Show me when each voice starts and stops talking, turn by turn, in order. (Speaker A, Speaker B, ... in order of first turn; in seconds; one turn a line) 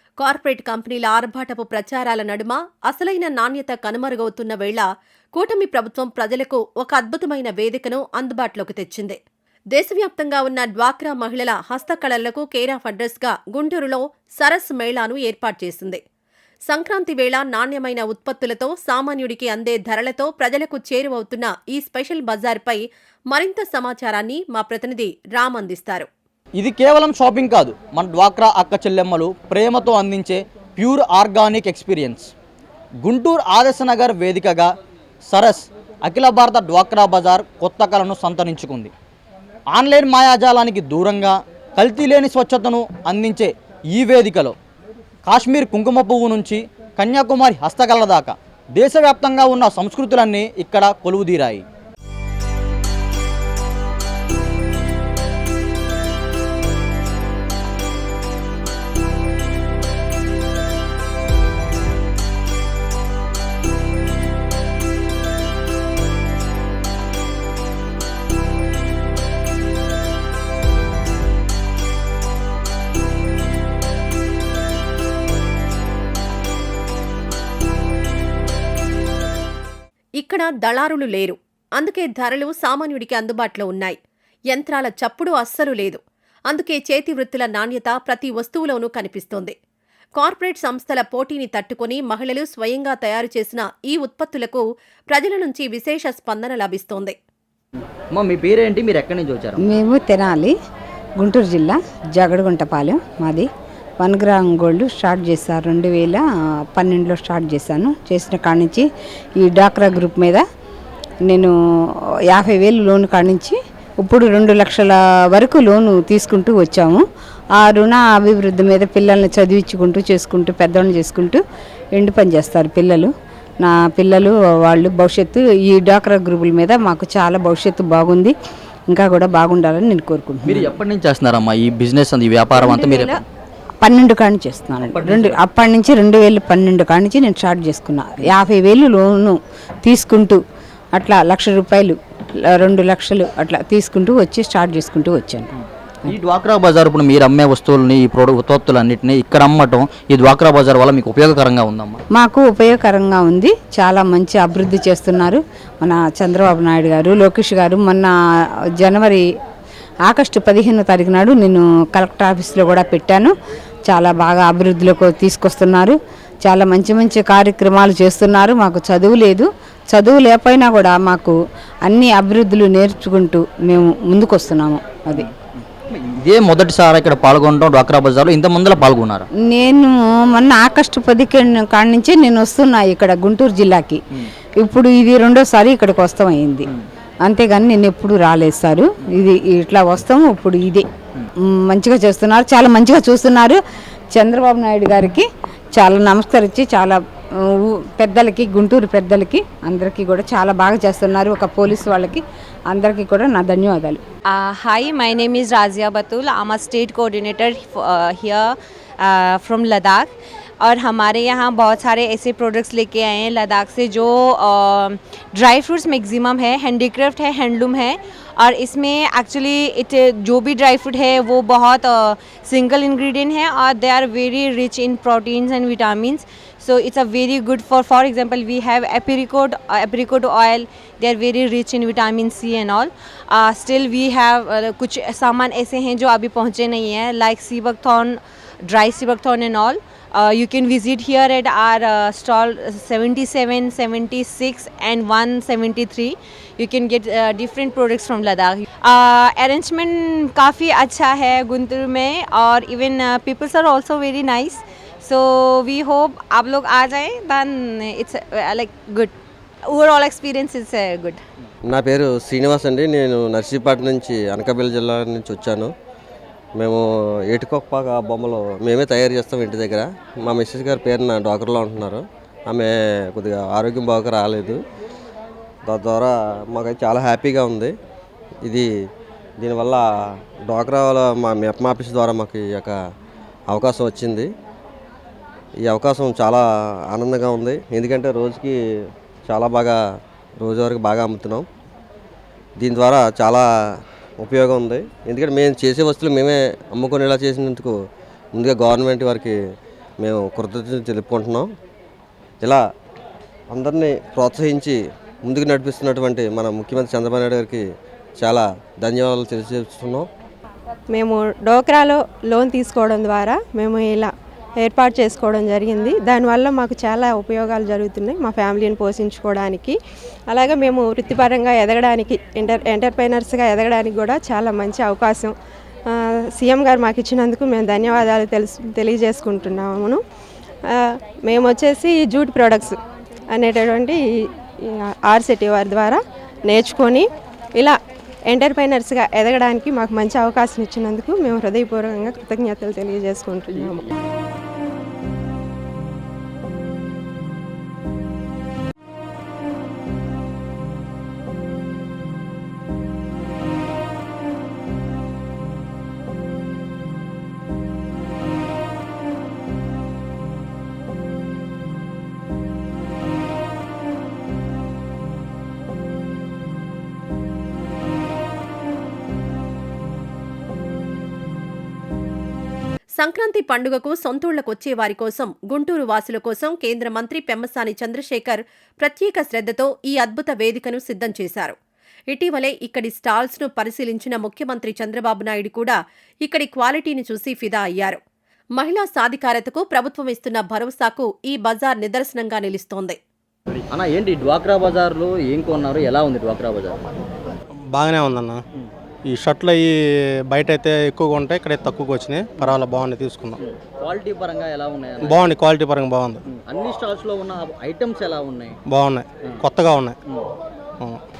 Speaker A: 0.2-9.2
Speaker A: 9.7-16.0
Speaker A: 16.7-26.1
Speaker B: 26.6-32.3
Speaker B: 33.0-34.7
Speaker B: 35.3-38.9
Speaker B: 39.7-44.5
Speaker B: 45.3-51.6
Speaker A: 80.2-84.0
Speaker A: 84.5-89.5
Speaker A: 90.2-97.2
Speaker B: 98.1-99.6
Speaker C: 99.6-100.5
Speaker C: 101.2-103.5
Speaker C: 104.0-106.2
Speaker C: 106.8-108.9
Speaker C: 109.4-110.4
Speaker C: 111.3-111.5
Speaker C: 112.3-117.0
Speaker C: 117.6-121.4
Speaker C: 122.0-123.1
Speaker C: 123.6-128.3
Speaker C: 128.9-130.7
Speaker B: 130.5-133.2
Speaker D: 132.6-133.2
Speaker C: 133.8-140.4
Speaker B: 135.0-135.4
Speaker C: 141.0-142.0
Speaker C: 142.5-145.5
Speaker B: 146.1-152.0
Speaker C: 152.1-158.1
Speaker C: 158.8-159.3
Speaker C: 160.1-163.3
Speaker C: 163.9-171.3
Speaker C: 171.9-175.3
Speaker B: 175.9-179.3
Speaker C: 179.5-184.0
Speaker C: 184.6-186.7
Speaker C: 187.3-190.8
Speaker C: 191.7-193.6
Speaker C: 194.2-195.3
Speaker C: 195.8-197.0
Speaker C: 197.6-204.0
Speaker D: 204.3-210.1
Speaker D: 210.6-259.1
Speaker D: 259.7-261.2
Speaker E: 261.7-265.7
Speaker E: 266.6-274.6
Speaker E: 275.7-277.7
Speaker E: 279.4-279.8
Speaker E: 280.5-282.8
Speaker E: 283.5-284.3
Speaker E: 285.6-288.6
Speaker E: 289.3-289.8
Speaker E: 290.4-291.5
Speaker E: 292.6-293.4
Speaker E: 294.2-297.7
Speaker E: 298.4-299.4
Speaker E: 300.0-301.5
Speaker E: 303.5-307.6
Speaker E: 308.2-310.1
Speaker F: 310.9-319.8
Speaker F: 320.3-325.3
Speaker F: 325.9-330.0
Speaker F: 330.7-332.8
Speaker F: 333.3-334.0
Speaker F: 335.1-337.1
Speaker F: 338.3-343.9
Speaker A: 373.0-381.6
Speaker A: 382.1-388.0
Speaker A: 388.6-393.0
Speaker B: 393.7-396.8
Speaker G: 397.7-398.4
Speaker G: 399.1-399.7
Speaker G: 400.3-403.4
Speaker B: 403.4-405.4
Speaker G: 405.0-406.2
Speaker B: 406.3-408.6
Speaker G: 408.7-410.0